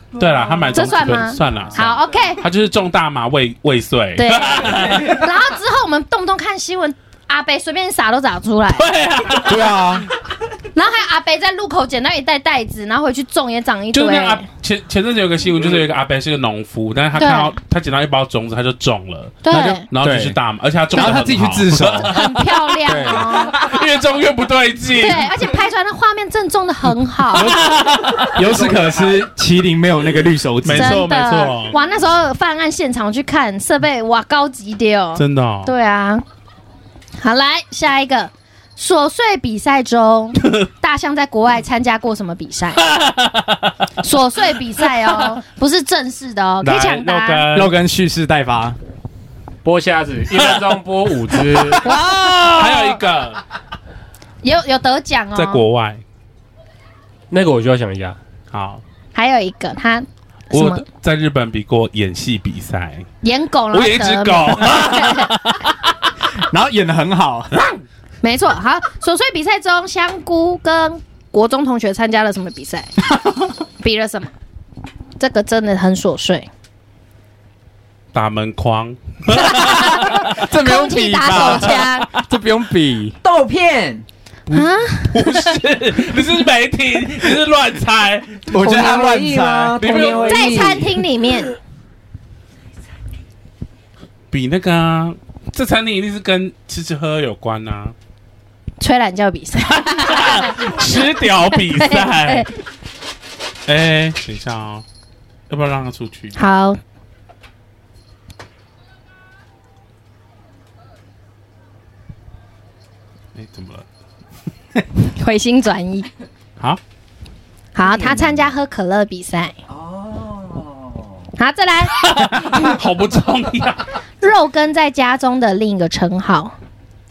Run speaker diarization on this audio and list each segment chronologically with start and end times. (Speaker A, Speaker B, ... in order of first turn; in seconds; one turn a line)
Speaker A: 0.2-5.2
Speaker B: 0.2-0.8
Speaker C: 0.7-2.4
Speaker C: 4.2-8.9
Speaker A: 8.7-9.8
Speaker D: 9.4-10.1
Speaker C: 10.8-14.4
Speaker A: 13.9-22.4
Speaker C: 17.2-17.6
Speaker C: 19.4-19.9
Speaker D: 19.9-20.4
Speaker D: 20.9-22.1
Speaker C: 22.0-23.6
Speaker D: 22.9-23.3
Speaker A: 23.4-25.4
Speaker C: 25.0-27.5
Speaker D: 27.3-31.1
Speaker A: 27.4-28.4
Speaker E: 28.6-29.2
Speaker A: 30.6-31.8
Speaker C: 30.7-36.2
Speaker A: 35.2-35.7
Speaker C: 37.2-42.9
Speaker A: 42.9-43.6
Speaker C: 44.0-47.5
Speaker A: 46.6-47.8
Speaker D: 47.5-48.8
Speaker E: 49.6-51.9
Speaker C: 51.8-52.9
Speaker A: 52.4-53.4
Speaker C: 54.4-55.6
Speaker A: 55.4-56.0
Speaker E: 57.3-58.2
Speaker A: 58.5-58.8
Speaker C: 59.1-60.8
Speaker A: 60.5-63.1
Speaker C: 63.2-65.3
Speaker A: 63.7-65.7
Speaker D: 66.5-67.7
Speaker C: 68.2-72.9
Speaker C: 73.8-74.3
Speaker C: 75.2-76.5
Speaker A: 78.1-80.3
Speaker C: 79.3-82.1
Speaker D: 80.2-83.2
Speaker A: 81.3-81.8
Speaker B: 83.2-84.0
Speaker C: 84.5-85.6
Speaker A: 84.5-88.5
Speaker D: 88.5-90.5
Speaker B: 88.5-90.9
Speaker A: 89.8-90.8
Speaker C: 90.2-91.5
Speaker A: 94.3-97.9
Speaker C: 98.8-101.0
Speaker A: 99.7-102.5
Speaker C: 101.5-102.5
Speaker A: 103.7-104.8
Speaker A: 105.5-106.4
Speaker C: 106.4-106.8
Speaker A: 113.3-113.9
Speaker C: 115.0-116.1
Speaker C: 117.8-119.5
Speaker B: 117.8-118.4
Speaker B: 119.7-121.3
Speaker C: 121.4-122.0
Speaker A: 122.0-123.9
Speaker C: 124.2-126.5